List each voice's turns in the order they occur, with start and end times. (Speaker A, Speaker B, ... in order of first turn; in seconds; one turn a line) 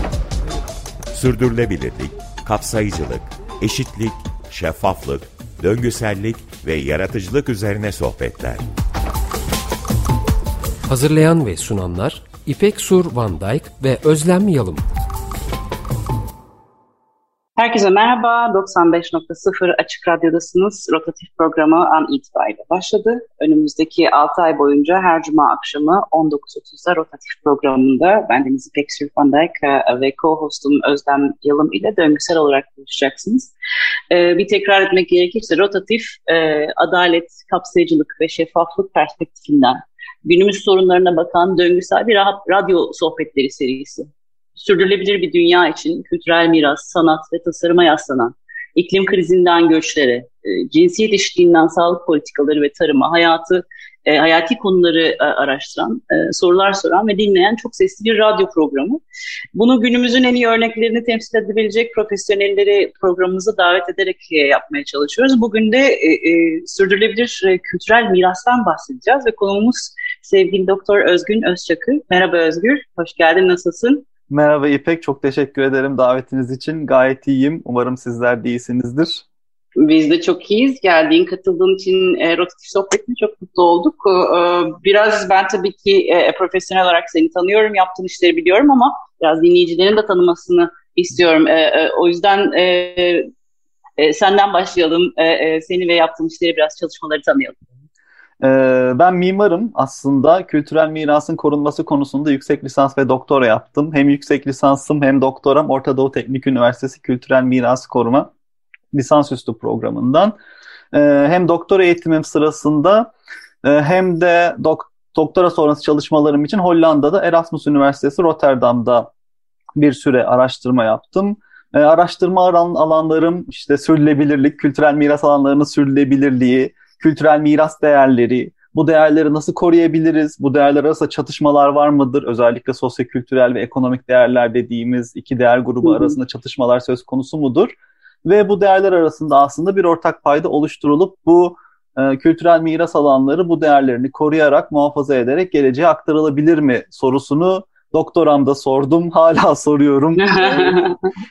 Speaker A: 1.1-8.7
Speaker B: 10.9-14.8
Speaker C: 17.6-33.5
Speaker C: 34.1-59.0
Speaker C: 59.5-74.1
Speaker D: 74.3-79.2
Speaker C: 79.8-93.3
Speaker C: 94.0-97.6
Speaker D: 98.4-108.3
Speaker D: 108.9-110.4
Speaker D: 110.9-113.1
Speaker D: 113.6-119.1
Speaker D: 119.8-137.7
Speaker C: 135.8-136.2
Speaker D: 138.2-150.9
Speaker C: 150.2-151.1